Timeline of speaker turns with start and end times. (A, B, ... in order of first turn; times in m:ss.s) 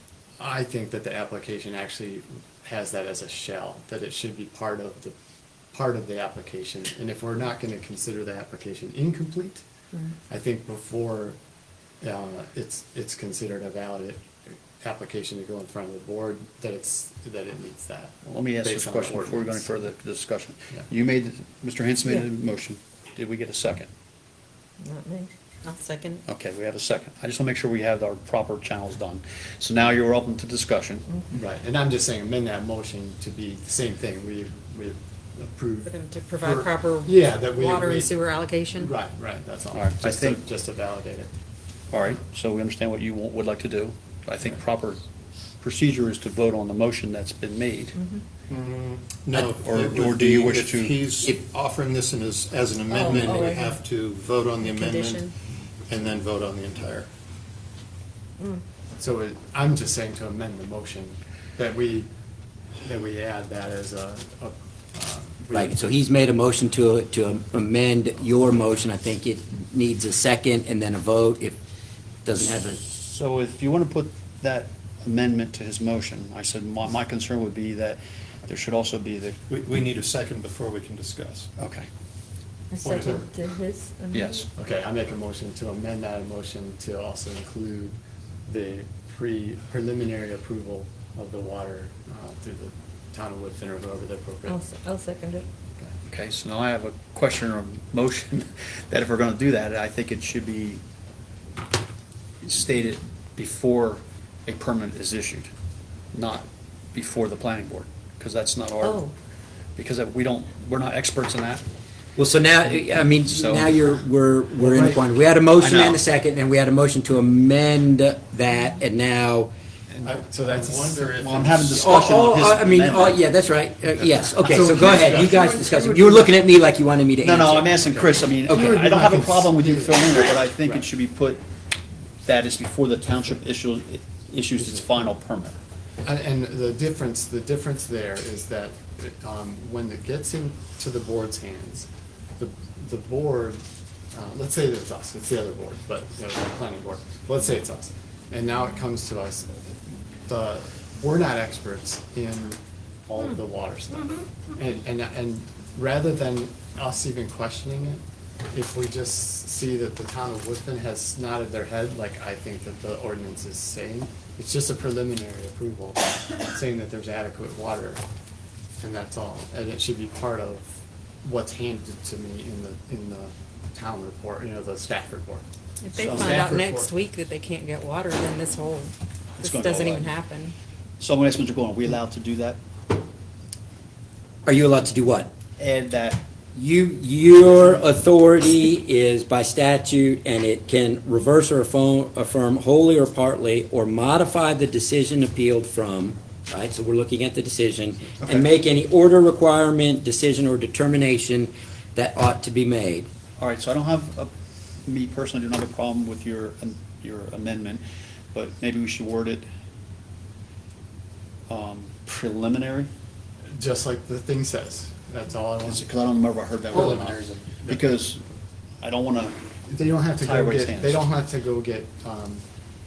0:00.4-0:05.1 A
0:05.7-0:09.6 A
0:10.3-0:11.4 A
0:12.0-0:14.2 A
0:14.8-0:19.6 A
0:18.3-0:23.9 B
0:24.8-0:25.3 C
0:25.6-0:26.2 D
0:26.3-0:31.0 B
0:31.3-0:35.9 A
0:35.8-0:38.9 D
0:36.4-0:38.1 A
0:38.7-0:41.3 A
0:39.7-0:40.4 B
0:41.9-0:45.0 B
0:45.6-0:48.0 B
0:48.5-0:55.3 E
0:49.3-0:51.0 B
0:52.9-0:53.7 C
0:54.6-0:55.3 D
0:55.9-0:57.1 E
0:59.0-1:02.1 A
1:02.8-1:05.8 A
1:05.5-1:11.6 F
1:12.2-1:12.8 F
1:12.8-1:19.4 B
1:19.5-1:21.5 E
1:21.6-1:21.9 B
1:22.7-1:24.4 C
1:22.8-1:23.2 E
1:24.1-1:24.5 B
1:24.6-1:28.0 A
1:28.5-1:34.6 A
1:34.4-1:35.4 C
1:36.0-1:40.8 B
1:42.4-1:45.5 B
1:46.1-1:49.1 B
1:49.8-1:51.6 B
1:52.2-1:59.5 F
1:53.2-1:53.9 B
1:54.6-1:55.0 A
1:55.6-1:56.0 B
1:59.9-2:01.1 A
2:00.0-2:01.9 E
2:01.2-2:03.2 B
2:01.7-2:07.7 F
2:04.4-2:06.3 E
2:07.2-2:11.4 B
2:07.7-2:10.8 A
2:08.5-2:08.8 F
2:12.2-2:15.6 B
2:14.6-2:14.8 A
2:16.0-2:23.6 A
2:24.1-2:29.7 A
2:30.2-2:48.0 A
2:48.8-2:50.7 A
2:51.2-2:55.4 A
2:55.8-3:00.5 D
2:55.9-2:56.4 B
2:56.0-2:56.9 A
2:59.4-3:00.1 B
3:01.0-3:02.6 B
3:04.4-3:05.3 F
3:05.6-3:06.2 B
3:06.5-3:23.1 F
3:18.2-3:18.5 B
3:23.4-3:24.3 B
3:24.8-3:29.4 B
3:31.5-3:32.9 B
3:33.5-3:35.8 A
3:35.6-3:37.1 B
3:36.7-3:37.8 A
3:36.7-3:37.4 E
3:37.7-3:38.2 B
3:38.8-3:39.3 B
3:39.7-3:42.4 A
3:40.2-3:41.0 B